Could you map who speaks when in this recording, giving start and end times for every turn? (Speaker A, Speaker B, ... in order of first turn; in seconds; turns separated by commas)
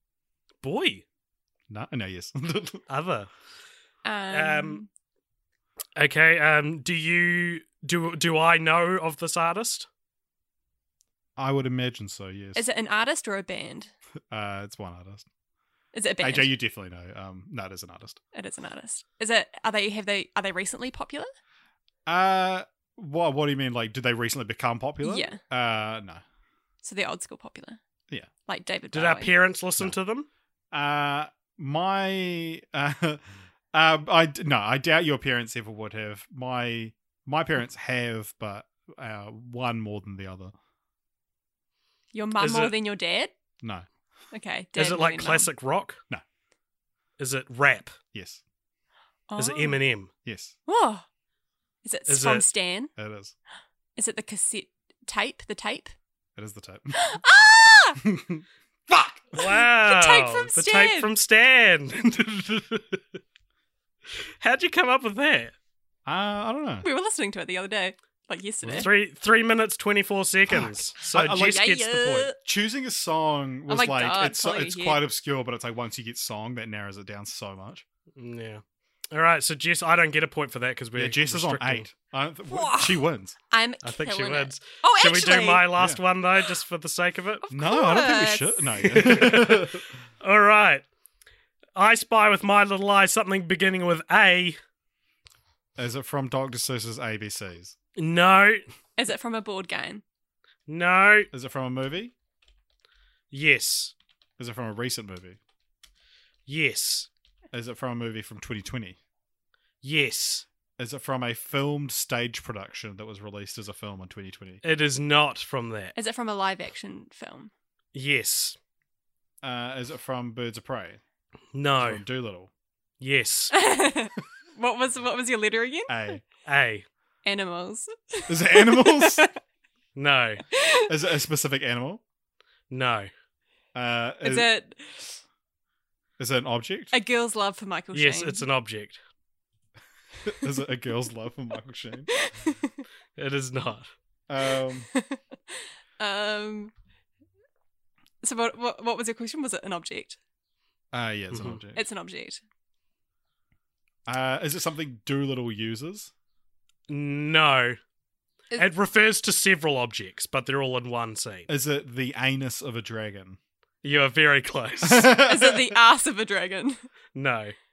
Speaker A: 0.6-1.0, Speaker B: 1.7-2.8, Speaker A: 2.9-3.3, Speaker C: 4.0-4.9, Speaker A: 4.3-4.8, Speaker A: 6.0-9.9, Speaker B: 11.4-12.6, Speaker C: 12.5-13.9, Speaker B: 14.3-15.2, Speaker C: 15.9-16.6, Speaker B: 16.2-18.2, Speaker C: 18.3-21.3, Speaker B: 22.1-26.2, Speaker C: 25.0-25.4, Speaker C: 26.8-27.8, Speaker C: 28.4-29.3, Speaker A: 28.9-30.3, Speaker B: 30.7-40.5, Speaker C: 42.1-43.3, Speaker A: 42.4-42.8, Speaker C: 44.3-45.5, Speaker A: 44.8-46.0, Speaker A: 47.2-48.0, Speaker B: 48.1-48.4, Speaker C: 49.3-49.8, Speaker A: 49.4-50.1, Speaker B: 50.2-50.5, Speaker C: 50.6-51.0, Speaker C: 51.8-52.9, Speaker A: 52.1-52.5, Speaker B: 53.0-53.3, Speaker C: 54.0-55.9, Speaker B: 56.4-57.0, Speaker C: 56.9-58.0, Speaker B: 58.0-59.3, Speaker A: 59.3-63.0, Speaker C: 59.3-61.1, Speaker A: 64.2-65.5, Speaker B: 66.0-66.8, Speaker C: 66.8-68.9, Speaker A: 68.7-72.2, Speaker B: 70.5-77.8, Speaker C: 71.3-72.4, Speaker C: 73.7-75.0, Speaker A: 78.2-81.9, Speaker B: 81.0-83.4, Speaker C: 82.5-85.7, Speaker A: 83.8-87.4, Speaker B: 85.8-86.0, Speaker C: 87.4-89.1, Speaker B: 87.5-89.8, Speaker A: 88.9-90.8, Speaker A: 91.8-94.6, Speaker B: 95.8-97.8, Speaker A: 98.0-98.6, Speaker C: 99.0-100.0, Speaker A: 100.7-101.3, Speaker B: 101.3-102.1, Speaker A: 103.3-103.9, Speaker B: 104.4-105.4, Speaker A: 106.5-107.1, Speaker B: 107.5-109.0, Speaker A: 109.8-110.5, Speaker B: 110.8-114.6, Speaker A: 114.6-115.9, Speaker C: 115.9-117.5, Speaker A: 117.9-118.5, Speaker B: 119.4-121.0, Speaker A: 121.5-122.0, Speaker B: 121.8-122.5, Speaker A: 123.0-123.5, Speaker C: 123.5-125.9, Speaker B: 125.9-126.2, Speaker A: 126.4-126.8, Speaker C: 127.2-129.3, Speaker B: 128.3-129.2, Speaker A: 129.9-130.4, Speaker C: 130.5-130.9, Speaker B: 130.9-132.0, Speaker A: 132.7-133.1, Speaker B: 133.7-134.5, Speaker C: 134.2-135.2, Speaker B: 136.2-136.9, Speaker C: 136.9-138.4, Speaker A: 137.9-139.0, Speaker B: 140.2-142.1, Speaker C: 142.2-142.8, Speaker A: 143.2-143.9, Speaker B: 144.3-144.9, Speaker C: 144.9-146.7, Speaker C: 148.2-150.2, Speaker B: 150.9-151.8, Speaker A: 151.3-151.6, Speaker C: 151.7-152.4, Speaker B: 154.1-156.1, Speaker A: 156.9-157.8, Speaker A: 158.6-161.5, Speaker B: 161.5-163.4, Speaker A: 163.8-165.1, Speaker B: 164.8-165.8, Speaker C: 165.1-166.8, Speaker A: 167.1-167.5